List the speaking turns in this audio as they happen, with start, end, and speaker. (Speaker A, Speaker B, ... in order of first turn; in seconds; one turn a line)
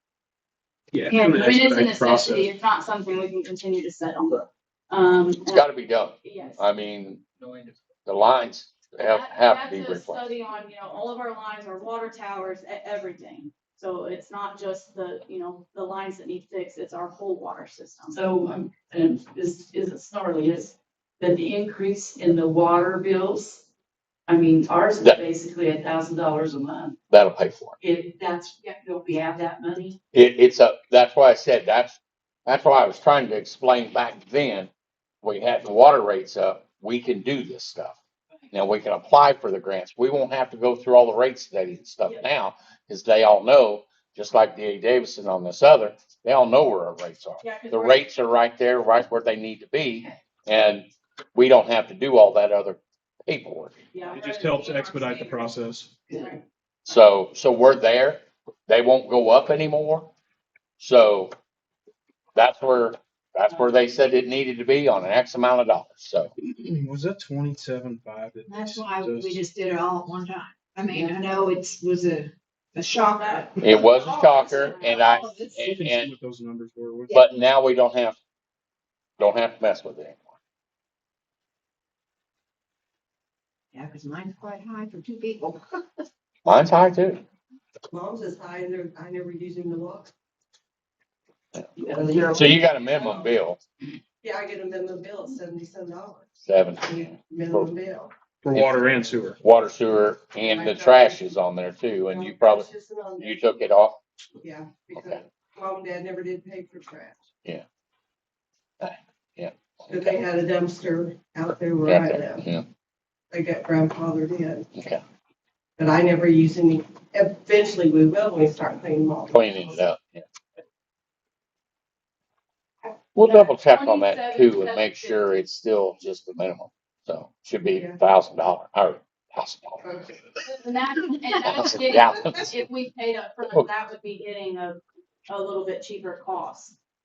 Speaker A: 0.9-2.5
Speaker B: 1.1-5.7
Speaker C: 5.5-10.3
Speaker B: 6.2-6.6
Speaker B: 9.0-18.1
Speaker D: 18.1-23.6
Speaker D: 24.3-27.0
Speaker C: 27.1-27.8
Speaker D: 27.8-30.0
Speaker C: 30.1-34.7
Speaker C: 35.2-38.0
Speaker C: 38.5-53.8
Speaker B: 47.4-48.1
Speaker B: 53.9-55.5
Speaker A: 54.1-56.0
Speaker B: 56.1-56.4
Speaker C: 56.9-60.1
Speaker C: 60.8-61.3
Speaker C: 62.3-66.3
Speaker A: 66.6-69.5
Speaker E: 68.5-73.7
Speaker B: 73.0-75.3
Speaker C: 73.6-76.1
Speaker E: 75.0-75.6
Speaker A: 75.5-77.1
Speaker E: 77.0-77.5
Speaker C: 77.1-78.2
Speaker C: 79.2-80.3
Speaker E: 83.7-85.8
Speaker C: 86.4-87.2
Speaker F: 87.9-90.1
Speaker C: 91.6-93.6
Speaker D: 91.8-92.4
Speaker F: 91.8-93.3
Speaker F: 94.2-96.3
Speaker C: 96.4-97.7
Speaker F: 96.8-98.1
Speaker A: 98.4-99.4
Speaker C: 98.5-98.8
Speaker C: 99.4-102.7
Speaker F: 100.5-101.3
Speaker F: 102.1-103.4
Speaker C: 103.2-104.0
Speaker F: 104.4-107.2
Speaker C: 108.8-110.2
Speaker F: 109.9-112.4
Speaker C: 111.8-112.7
Speaker F: 113.3-114.7
Speaker C: 114.7-115.0
Speaker F: 115.8-119.6
Speaker C: 119.3-120.2
Speaker C: 123.1-129.9
Speaker B: 123.2-125.3
Speaker F: 129.8-130.2
Speaker B: 130.5-136.8
Speaker C: 131.4-132.6